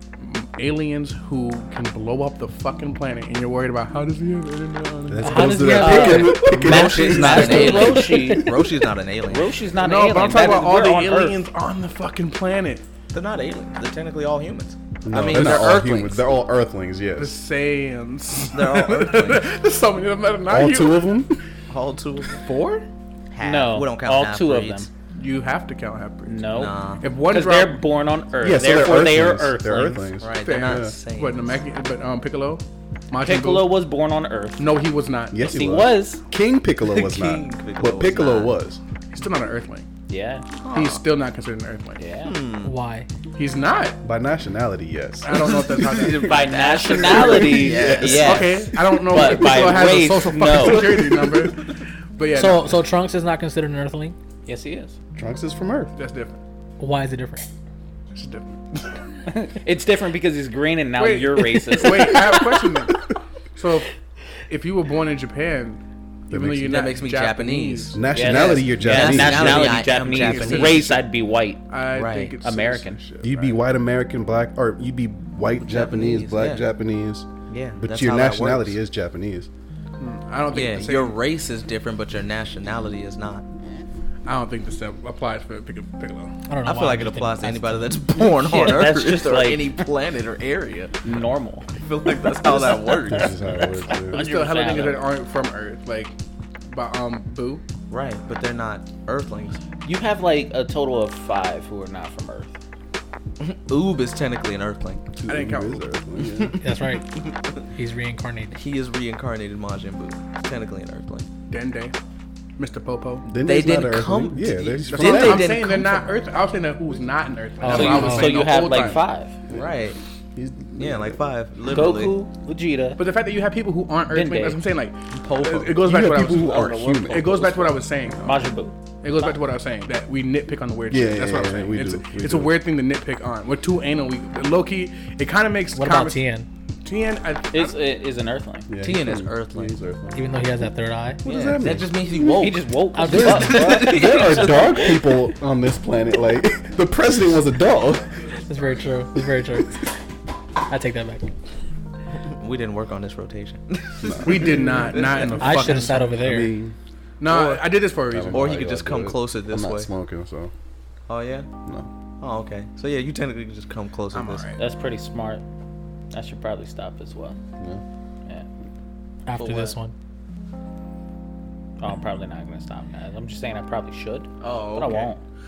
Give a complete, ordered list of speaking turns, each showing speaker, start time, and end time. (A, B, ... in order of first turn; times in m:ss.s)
0:00.2-0:05.8 A
0:05.1-0:08.2 B
0:05.2-0:06.4 C
0:05.7-0:08.5 D
0:06.2-0:09.5 E
0:07.4-0:07.7 A
0:09.3-0:11.4 D
0:09.8-0:12.8 A
0:13.1-0:16.3 E
0:15.0-0:17.3 B
0:15.3-0:15.7 A
0:17.2-0:21.1 A
0:18.4-0:19.4 E
0:20.5-0:21.4 B
0:21.7-0:22.5 E
0:22.4-0:22.9 A
0:23.3-0:24.9 E
0:23.4-0:24.9 D
0:25.2-0:26.4 A
0:26.3-0:26.7 D
0:26.5-0:27.0 E
0:27.0-0:27.8 A
0:27.2-0:30.1 D
0:28.4-0:30.9 B
0:30.2-0:31.6 E
0:30.4-0:33.7 A
0:33.1-0:34.7 D
0:34.6-0:35.7 A
0:35.3-0:38.8 B
0:35.4-0:36.2 D
0:36.8-0:38.6 E
0:39.1-0:39.9 A
0:40.1-0:40.4 D
0:40.6-0:41.0 E
0:40.7-0:42.0 A
0:42.0-0:42.3 D
0:42.2-0:42.7 E
0:42.6-0:43.1 C
0:43.4-0:44.0 A
0:44.0-0:46.2 B
0:45.2-0:46.4 A
0:45.7-0:48.6 E
0:46.2-0:51.0 D
0:47.0-0:49.8 B
0:48.0-0:52.9 A
0:50.4-0:51.6 B
0:52.3-0:54.2 C
0:54.5-0:55.0 D
0:55.2-0:55.9 B
0:56.0-0:56.4 A
0:56.8-0:57.5 C
0:58.1-0:58.9 A
0:59.3-1:02.3 D
1:01.0-1:03.0 A
1:03.6-1:03.9 A
1:04.5-1:08.6 A
1:06.3-1:06.8 B
1:06.7-1:10.9 E
1:07.9-1:09.8 B
1:08.2-1:11.7 D
1:09.4-1:11.1 A
1:11.7-1:13.6 A
1:11.9-1:12.4 E
1:12.4-1:13.0 D
1:13.2-1:19.5 B
1:15.6-1:16.7 E
1:17.5-1:18.8 E
1:20.0-1:21.2 A
1:20.5-1:23.4 E
1:24.3-1:26.4 A
1:26.5-1:28.0 C
1:26.6-1:31.0 E
1:28.2-1:29.8 D
1:31.0-1:31.7 D
1:31.7-1:33.4 E
1:33.1-1:34.3 B
1:33.6-1:35.0 D
1:34.0-1:36.2 A
1:36.7-1:37.6 A
1:37.9-1:39.6 E
1:39.8-1:42.6 D
1:43.4-1:45.1 E
1:45.2-1:46.6 B
1:45.3-1:45.8 A
1:46.3-1:47.6 E
1:46.6-1:47.1 C
1:47.7-1:48.6 C
1:48.5-1:51.3 E
1:51.5-1:52.0 A
1:52.6-1:53.3 A
1:53.2-1:55.6 B
1:53.4-1:55.9 E
1:54.9-1:59.0 A
1:57.6-1:58.0 B
1:57.6-1:58.6 C
1:57.7-1:59.4 D
1:59.5-2:01.3 B
1:59.5-2:00.0 E
2:00.8-2:02.2 E
2:01.7-2:03.0 D
2:03.0-2:08.3 A
2:04.1-2:04.6 D
2:05.1-2:07.0 E
2:05.8-2:08.4 B
2:08.2-2:09.3 D
2:09.0-2:16.2 A
2:10.9-2:12.6 B
2:15.7-2:16.5 C
2:16.8-2:17.8 A
2:17.5-2:18.7 D
2:18.7-2:20.3 B
2:18.8-2:19.8 E
2:20.1-2:21.2 C
2:21.2-2:22.5 B
2:21.2-2:25.0 E
2:22.3-2:25.0 D
2:23.0-2:23.8 C
2:23.1-2:28.2 B
2:28.4-2:29.9 C
2:30.7-2:31.3 C
2:32.3-2:35.8 E
2:34.0-2:34.8 B
2:34.2-2:36.2 A
2:35.4-2:36.6 C
2:36.2-2:36.8 B
2:37.2-2:38.6 A
2:37.3-2:40.5 B
2:38.3-2:39.9 E
2:41.1-2:41.5 E
2:42.2-2:44.5 E
2:44.1-2:44.6 A
2:44.6-2:45.4 D
2:46.1-2:47.4 D
2:49.3-2:49.9 C
2:49.4-2:49.8 E
2:51.8-2:55.2 D
2:54.4-2:55.1 E